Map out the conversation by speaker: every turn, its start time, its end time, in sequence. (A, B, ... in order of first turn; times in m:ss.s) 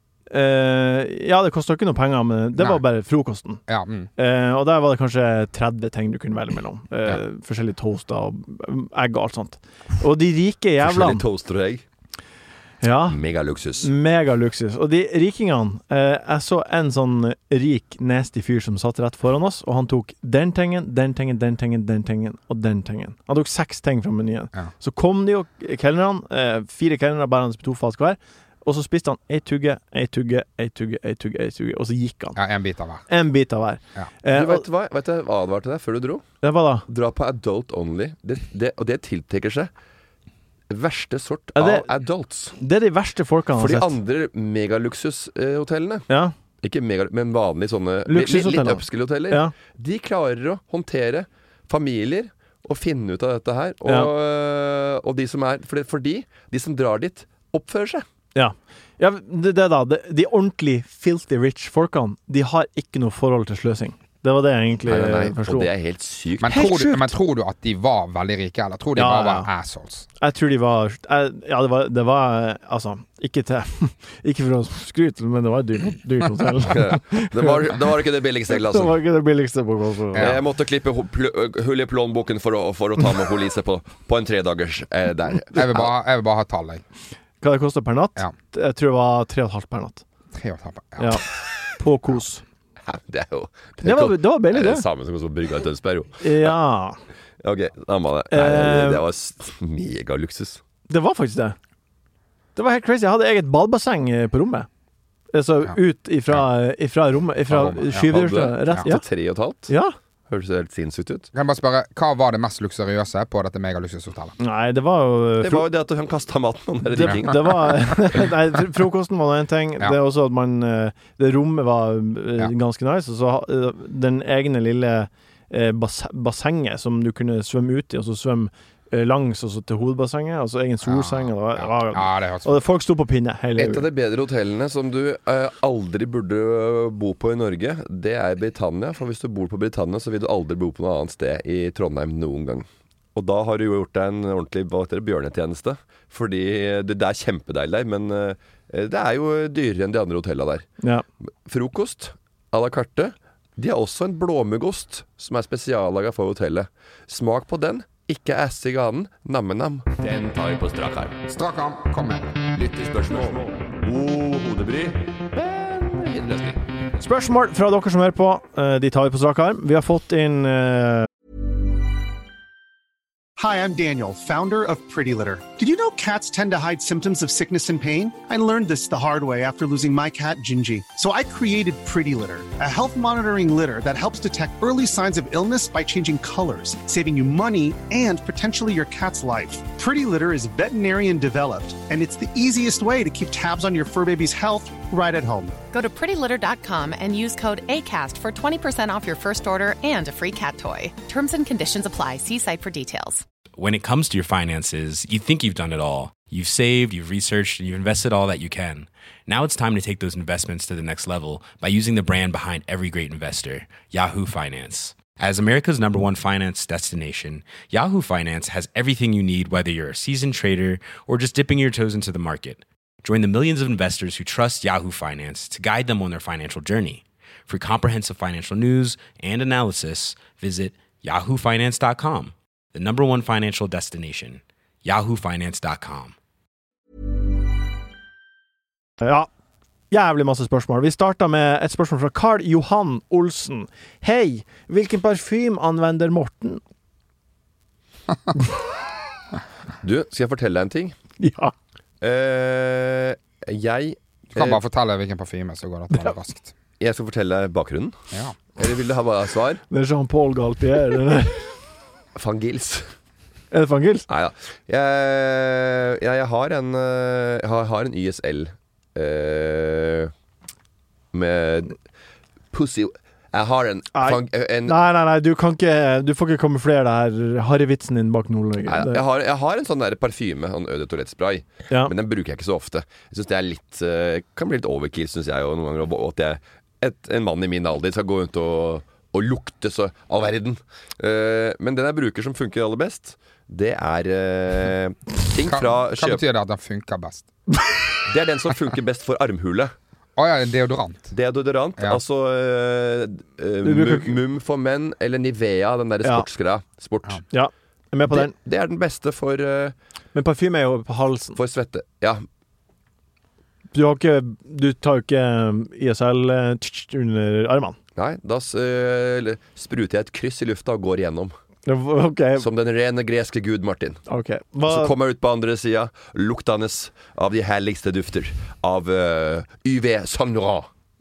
0:00.3-0:03.6 A
0:03.7-0:04.1 B
0:04.2-0:11.2 A
0:10.8-0:11.8 C
0:12.8-0:13.2 A
0:13.1-0:13.9 C
0:13.8-0:32.4 A
0:32.4-0:33.0 B
0:33.1-0:34.6 A
0:34.3-0:36.2 C
0:36.4-0:36.8 A
0:36.9-0:39.7 C
0:40.7-0:42.5 C
0:41.6-0:41.9 A
0:42.6-0:43.9 A
0:43.6-0:46.0 C
0:46.1-0:46.3 A
0:46.6-0:58.1 C
0:48.1-0:49.5 A
0:53.9-0:54.1 A
0:58.4-1:05.7 A
1:04.9-1:06.7 C
1:06.4-1:10.1 B
1:06.5-1:07.1 A
1:09.0-1:09.5 A
1:10.2-1:17.6 A
1:16.7-1:19.0 C
1:18.5-1:20.3 A
1:20.2-1:25.9 C
1:25.5-1:26.8 B
1:27.4-1:30.0 A
1:30.4-1:31.2 B
1:31.0-1:31.2 A
1:31.8-1:32.4 A
1:32.8-1:36.5 C
1:33.8-1:34.8 A
1:36.2-1:37.0 A
1:37.4-1:40.6 C
1:38.3-1:39.0 A
1:40.9-1:41.6 A
1:42.6-1:44.7 A
1:45.3-1:49.0 A
1:47.5-1:49.7 C
1:49.7-1:49.9 A
1:50.3-1:51.3 C
1:51.3-1:54.4 B
1:54.4-1:55.6 A
1:55.4-1:58.0 C
1:57.0-2:13.9 A
2:10.9-2:12.6 B
2:13.6-2:30.7 C
2:31.5-2:41.3 C
2:41.3-2:42.3 B
2:42.5-2:46.6 C
2:47.0-2:51.1 A
2:53.4-3:15.6 D
3:15.7-3:23.2 E
3:23.6-3:56.2 F
3:59.0-3:59.3 A
3:59.9-4:06.6 A
4:09.8-4:11.0 C
4:11.2-4:11.5 A
4:12.0-4:14.6 C
4:14.3-4:16.5 B
4:16.8-4:18.0 C
4:18.1-4:18.4 B
4:18.6-4:19.6 C
4:19.7-4:21.5 A
4:22.2-4:22.9 C
4:23.5-4:24.1 A
4:24.1-4:30.1 C
4:31.1-4:31.8 C
4:32.5-4:34.8 C
4:33.9-4:39.0 A
4:38.7-4:56.2 C
4:55.4-4:57.3 B
4:57.6-4:57.8 A
4:58.1-4:59.7 C
5:00.2-5:01.1 B
5:01.1-5:07.2 C
5:03.6-5:04.2 A
5:07.3-5:08.3 A
5:08.1-5:09.8 C
5:10.1-5:11.4 A
5:11.4-5:12.2 C
5:13.7-5:17.8 A
5:18.0-5:21.3 C
5:21.7-5:22.5 A
5:22.4-5:24.0 C
5:24.1-5:24.9 A
5:24.7-5:30.7 C